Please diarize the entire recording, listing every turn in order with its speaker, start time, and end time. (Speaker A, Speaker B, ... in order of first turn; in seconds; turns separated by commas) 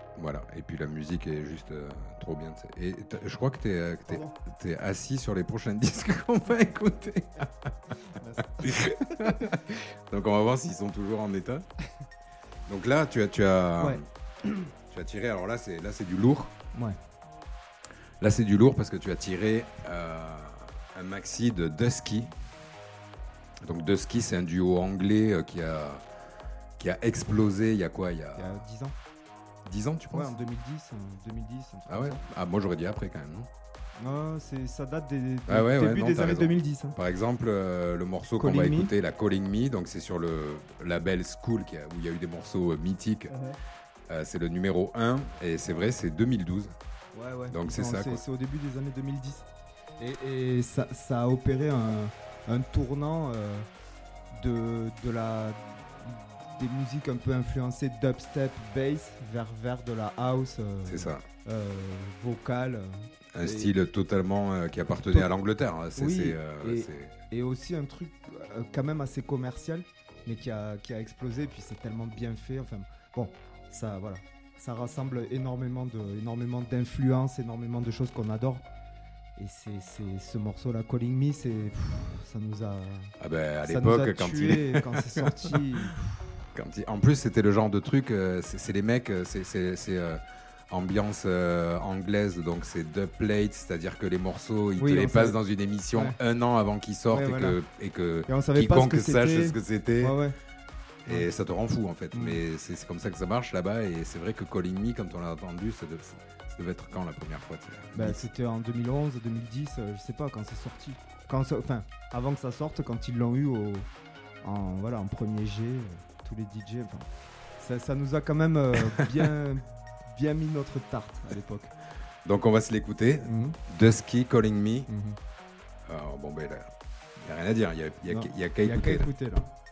Speaker A: 0.1-7.7, Speaker B: 4.1-4.3, Speaker B: 8.1-9.4, Speaker A: 8.6-11.7, Speaker A: 12.7-14.0, Speaker B: 13.8-14.6, Speaker A: 14.9-16.5, Speaker A: 18.2-22.3, Speaker A: 23.6-26.0, Speaker A: 26.8-28.6, Speaker B: 28.4-28.9, Speaker A: 29.6-30.4, Speaker B: 30.1-32.2, Speaker A: 31.9-33.5, Speaker B: 34.0-37.0, Speaker A: 35.5-43.3, Speaker B: 38.4-38.9, Speaker B: 43.3-43.5, Speaker A: 44.1-46.7, Speaker B: 47.1-49.5, Speaker A: 47.5-48.2, Speaker B: 50.0-53.7, Speaker B: 54.3-63.7, Speaker A: 60.9-61.2, Speaker A: 63.3-67.1, Speaker B: 65.9-78.6, Speaker B: 79.4-83.1, Speaker A: 83.2-85.6, Speaker B: 83.6-86.2, Speaker A: 86.5-100.2, Speaker B: 94.8-95.4, Speaker B: 97.1-97.6, Speaker B: 98.3-100.3, Speaker A: 101.0-108.3, Speaker B: 102.1-102.4, Speaker B: 107.9-113.9, Speaker B: 114.4-121.7, Speaker A: 122.2-124.9, Speaker B: 123.2-123.6, Speaker B: 124.9-125.2, Speaker A: 125.8-126.7, Speaker A: 127.2-129.1, Speaker B: 128.1-129.5